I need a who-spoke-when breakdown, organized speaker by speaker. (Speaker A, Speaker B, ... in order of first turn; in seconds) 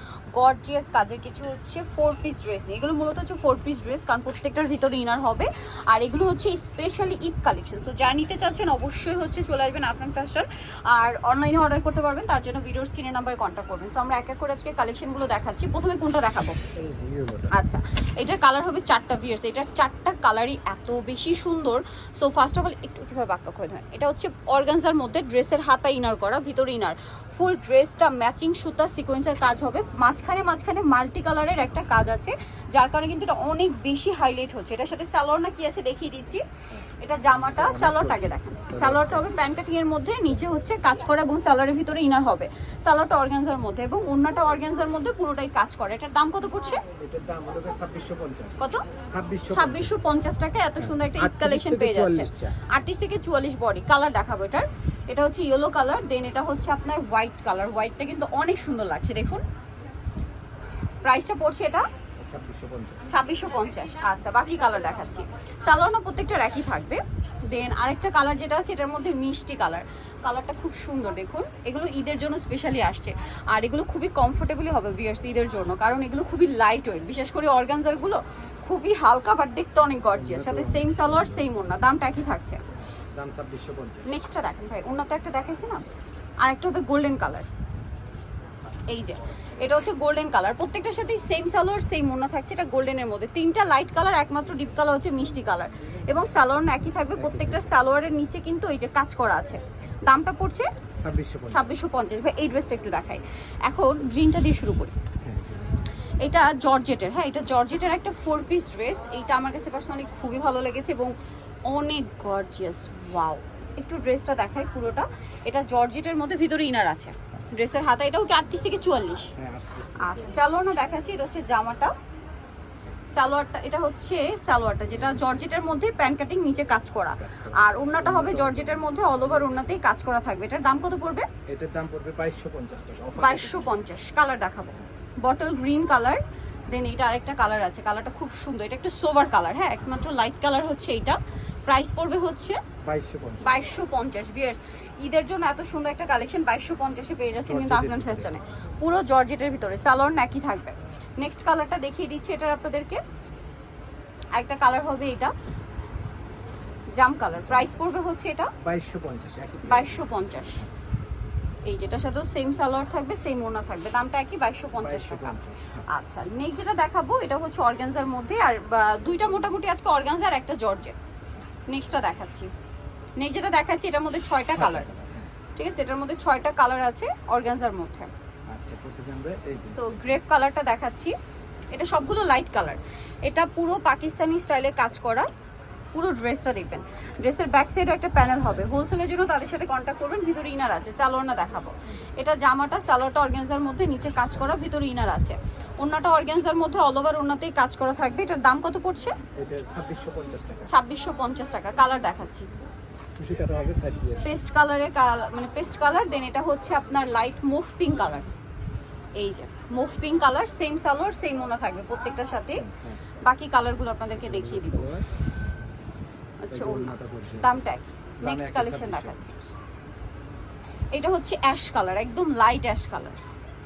Speaker A: 0.3-16.6, 17.5-46.8, 48.6-48.9, 49.5-59.4, 61.0-61.9, 63.1-82.6, 84.0-85.8, 86.4-87.5, 88.9-100.7, 101.5-104.9, 106.2-111.1, 111.7-119.3, 120.0-121.9, 123.1-131.3, 133.2-142.6, 143.4-153.0, 154.3-155.3, 157.0-158.5, 159.7-160.7, 161.6-170.9, 171.7-172.5, 173.2-174.9, 175.6-178.1, 179.7-181.1, 181.7-185.3, 185.9-199.1, 200.7-202.5, 204.2-208.3, 209.2-212.7, 213.2-214.9, 216.4-219.3, 220.9-223.2
Speaker B: 16.7-17.5, 36.7-39.3, 47.0-49.9, 50.8-52.6, 62.2-63.0, 80.1-81.5, 83.0-84.2, 97.2-97.7, 101.0-101.6, 105.2-105.7, 119.3-120.4, 127.2-129.5, 131.5-133.8, 142.8-143.6, 147.5-148.3, 157.3-157.8, 158.6-160.7, 164.8-165.9, 174.6-175.3, 178.5-179.8, 199.4-200.7, 203.2-204.3, 212.5-213.0, 214.2-215.1, 216.5-217.6, 218.2-219.4